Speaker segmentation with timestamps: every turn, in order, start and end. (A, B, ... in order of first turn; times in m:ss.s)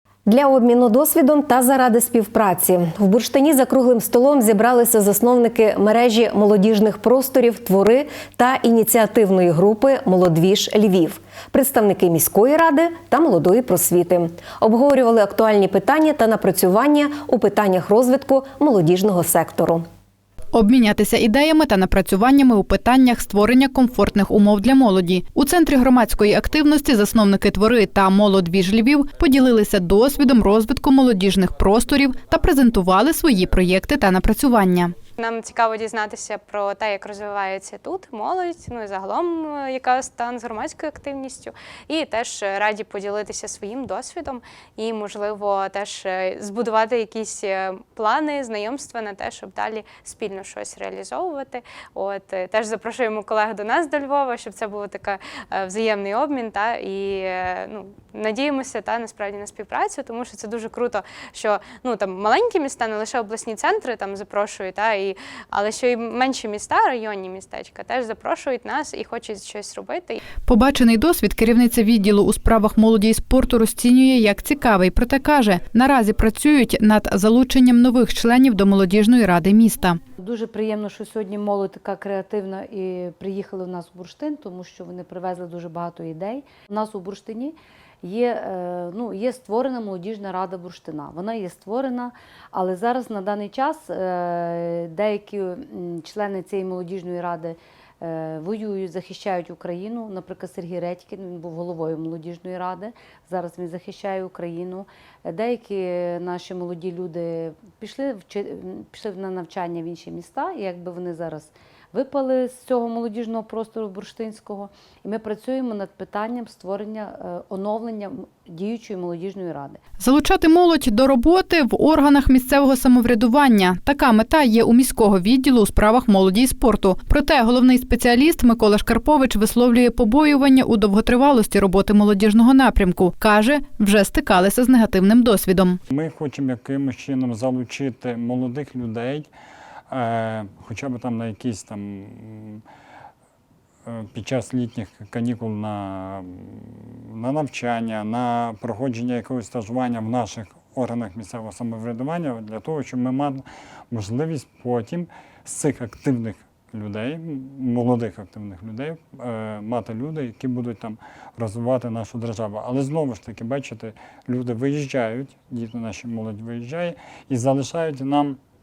0:00.3-0:19.9 A
0:20.5-0:35.0 B
0:35.2-1:10.2 C
1:10.5-1:20.0 B
1:20.2-1:59.8 D
2:00.0-2:15.8 B
2:15.9-2:19.3 E
2:19.9-2:22.6 E
2:23.8-2:48.4 E